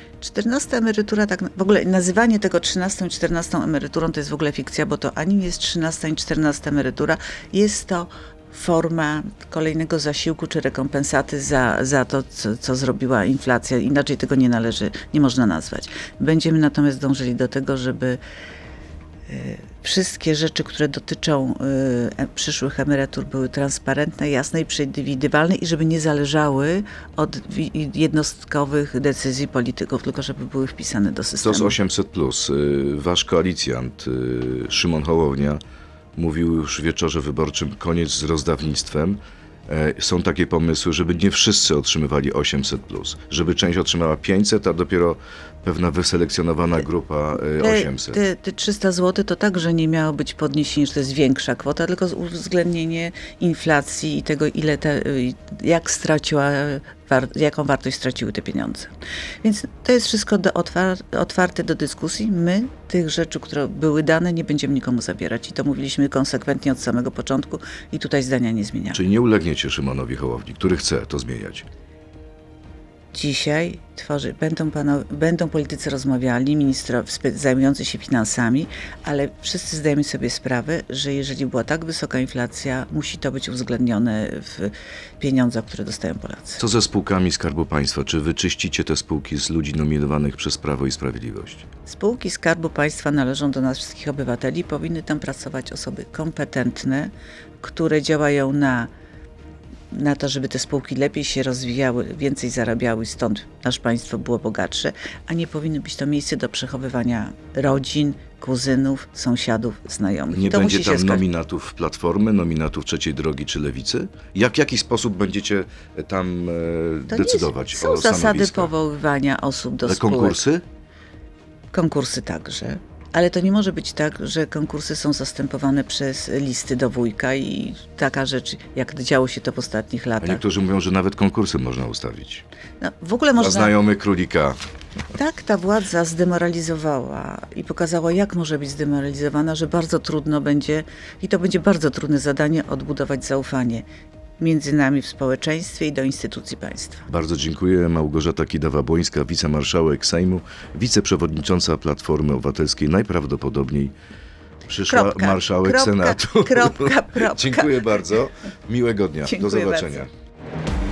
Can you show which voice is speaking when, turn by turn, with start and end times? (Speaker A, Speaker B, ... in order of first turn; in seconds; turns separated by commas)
Speaker A: 0.2-18.2, Speaker A: 19.3-31.8, Speaker B: 31.4-35.6, Speaker B: 36.2-48.2, Speaker A: 47.6-58.9, Speaker A: 59.4-69.0, Speaker B: 68.9-71.7, Speaker A: 73.1-86.6, Speaker B: 86.6-91.7, Speaker A: 91.9-98.9, Speaker A: 99.9-111.2, Speaker B: 110.3-118.7, Speaker A: 117.1-120.4, Speaker B: 119.8-120.6, Speaker A: 121.7-130.4, Speaker B: 130.2-132.4, Speaker A: 132.8-133.8, Speaker B: 133.4-134.6, Speaker A: 135.1-143.8, Speaker A: 144.4-147.1, Speaker B: 147.1-153.9, Speaker B: 154.7-160.1, Speaker A: 154.9-157.9, Speaker A: 159.3-160.1